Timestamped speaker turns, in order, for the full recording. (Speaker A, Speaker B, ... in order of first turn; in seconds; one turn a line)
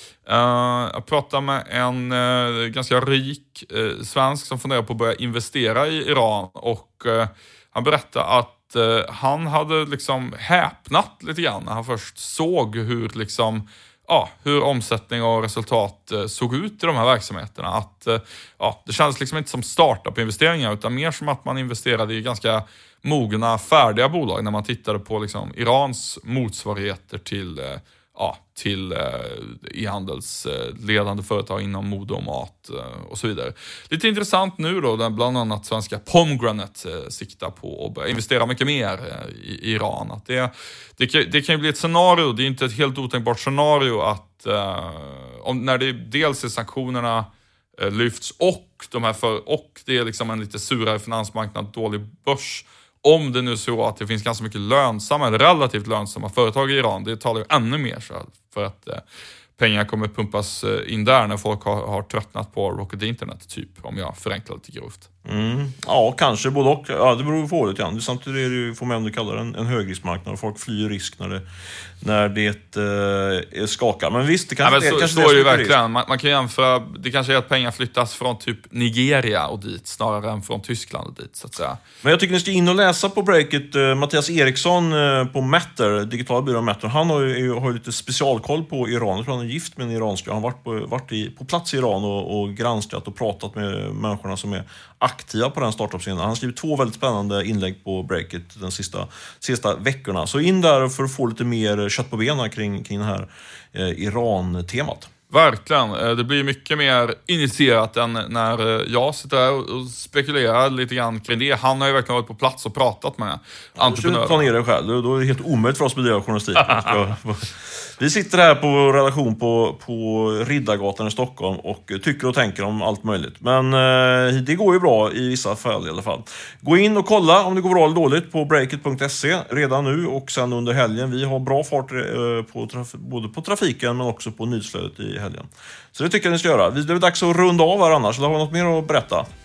Speaker A: 0.2-59.0
Speaker A: 59.6-65.1
Speaker B: 65.2-71.4
Speaker B: 72.0-75.8
Speaker A: 74.6-81.8
Speaker B: 82.0-105.1
Speaker A: 105.3-114.5
Speaker B: 113.8-139.3